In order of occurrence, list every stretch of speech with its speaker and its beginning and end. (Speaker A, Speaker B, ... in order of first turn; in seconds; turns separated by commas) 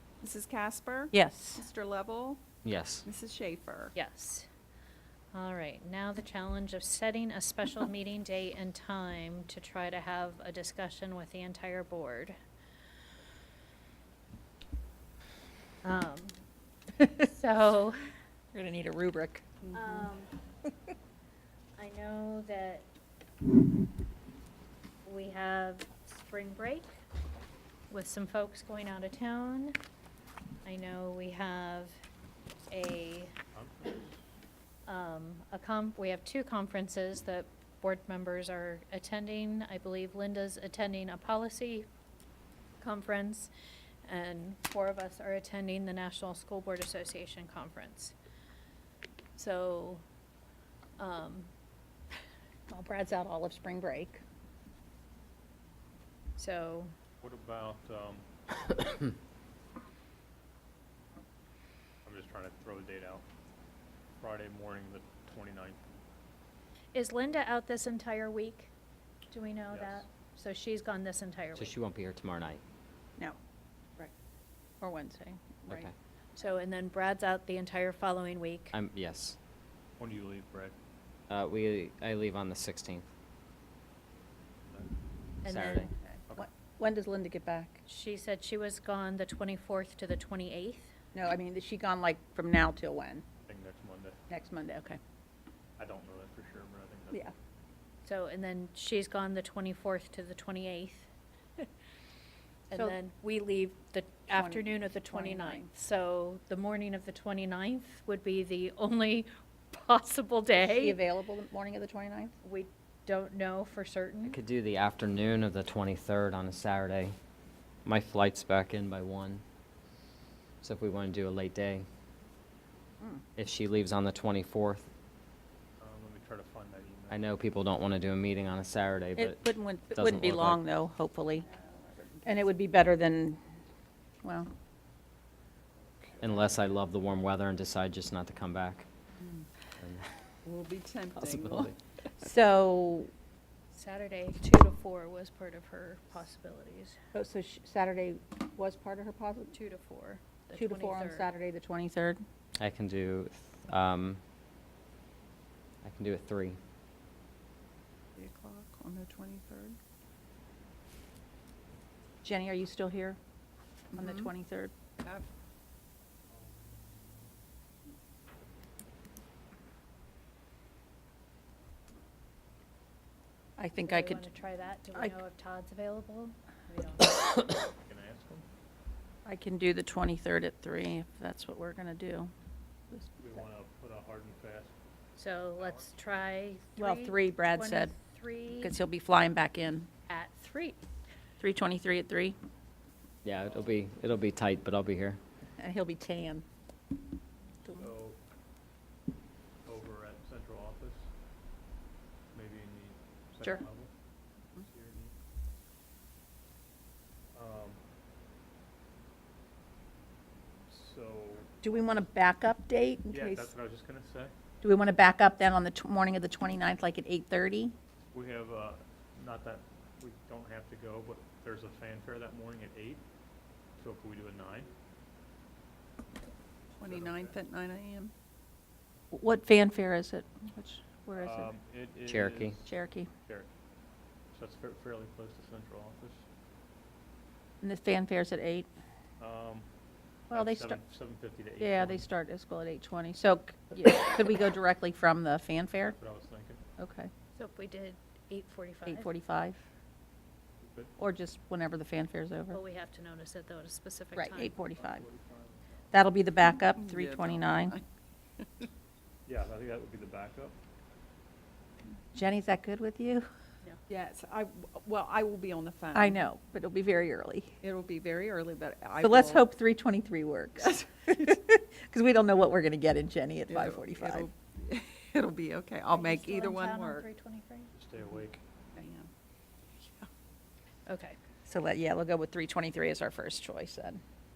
Speaker A: 0.2-2.4, Speaker B: 1.1-1.7, Speaker C: 2.6-3.1, Speaker A: 3.0-3.9, Speaker D: 3.9-4.5, Speaker D: 5.3-12.3, Speaker D: 15.8-16.4, Speaker D: 17.1-18.0, Speaker B: 18.5-19.4, Speaker A: 19.6-20.1, Speaker D: 19.7-20.3, Speaker D: 21.8-22.9, Speaker D: 25.0-26.9, Speaker D: 27.9-29.8, Speaker D: 30.6-31.9, Speaker D: 32.7-33.3, Speaker E: 33.5-34.2, Speaker D: 34.9-41.9, Speaker D: 42.8-43.5, Speaker D: 44.0-48.1, Speaker D: 49.4-50.0, Speaker D: 51.0-51.5, Speaker B: 52.7-54.2, Speaker D: 56.4-56.9, Speaker E: 57.2-58.2, Speaker E: 62.0-63.2, Speaker E: 64.2-65.8, Speaker D: 66.9-68.7, Speaker D: 69.3-71.7, Speaker E: 69.7-70.0, Speaker C: 71.5-72.6, Speaker B: 74.8-75.9, Speaker D: 76.3-78.7, Speaker C: 78.7-79.4, Speaker E: 80.0-80.7, Speaker C: 81.3-83.0, Speaker D: 85.4-85.9, Speaker C: 85.5-85.9, Speaker B: 86.3-87.8, Speaker D: 87.8-90.9, Speaker B: 91.1-93.2, Speaker E: 93.4-94.2, Speaker B: 94.3-95.0, Speaker E: 95.8-97.4, Speaker D: 98.0-101.1, Speaker D: 102.7-111.0, Speaker B: 104.3-105.7, Speaker B: 110.6-112.3, Speaker D: 112.4-114.4, Speaker C: 114.2-117.1, Speaker C: 117.8-119.4, Speaker C: 120.6-121.8, Speaker C: 123.4-124.9, Speaker E: 125.8-127.2, Speaker C: 127.1-129.4, Speaker B: 129.2-131.5, Speaker C: 129.9-130.6, Speaker A: 131.7-132.1, Speaker B: 132.2-133.4, Speaker B: 134.2-134.5, Speaker C: 136.2-138.9, Speaker C: 139.8-140.1, Speaker A: 140.4-141.7, Speaker C: 141.2-141.7, Speaker B: 142.2-143.1, Speaker D: 143.7-147.0, Speaker B: 147.1-149.5, Speaker D: 149.5-151.3, Speaker B: 150.5-152.2, Speaker C: 152.6-154.2, Speaker C: 155.8-156.6, Speaker A: 158.1-159.8, Speaker B: 162.2-163.2, Speaker A: 163.9-164.3, Speaker B: 163.9-164.7, Speaker A: 165.0-165.2, Speaker B: 173.6-174.2, Speaker D: 173.8-177.2, Speaker E: 177.6-178.4, Speaker B: 179.2-182.3, Speaker E: 183.2-184.7, Speaker D: 185.2-188.7, Speaker E: 185.6-185.9, Speaker B: 186.8-187.9, Speaker B: 188.5-189.9, Speaker D: 190.1-190.8, Speaker B: 191.4-192.3, Speaker C: 193.2-195.2, Speaker E: 193.4-193.7, Speaker B: 195.6-196.4, Speaker E: 197.7-198.2, Speaker E: 199.6-201.1, Speaker E: 202.3-203.9, Speaker E: 204.6-205.1, Speaker E: 207.3-207.8, Speaker E: 210.7-211.8, Speaker B: 211.6-213.5, Speaker E: 213.1-214.3, Speaker B: 214.6-217.7, Speaker E: 218.1-223.0, Speaker E: 223.8-224.7, Speaker A: 226.8-228.1, Speaker E: 226.8-227.4, Speaker B: 229.1-231.5, Speaker E: 231.2-232.7, Speaker C: 232.1-232.6, Speaker B: 232.7-233.1, Speaker E: 234.3-236.2, Speaker B: 237.6-238.7, Speaker E: 239.2-239.7, Speaker B: 240.3-240.8, Speaker E: 240.3-242.0, Speaker B: 241.6-245.9, Speaker E: 245.8-246.6, Speaker B: 246.8-247.1, Speaker D: 247.3-249.1, Speaker B: 248.8-249.6, Speaker E: 250.6-250.9, Speaker B: 251.0-252.6, Speaker D: 252.5-254.5, Speaker B: 254.1-255.0, Speaker E: 254.7-255.8, Speaker B: 255.9-257.8, Speaker A: 256.8-257.8, Speaker A: 258.4-258.7, Speaker E: 259.2-260.6, Speaker B: 262.1-263.3, Speaker A: 263.9-266.2, Speaker B: 265.9-267.5, Speaker A: 267.6-269.5, Speaker B: 269.0-274.3, Speaker A: 273.5-277.1, Speaker D: 275.9-277.7, Speaker E: 277.7-278.4, Speaker A: 278.7-279.1, Speaker A: 279.8-280.1, Speaker D: 280.9-281.2, Speaker B: 281.4-284.0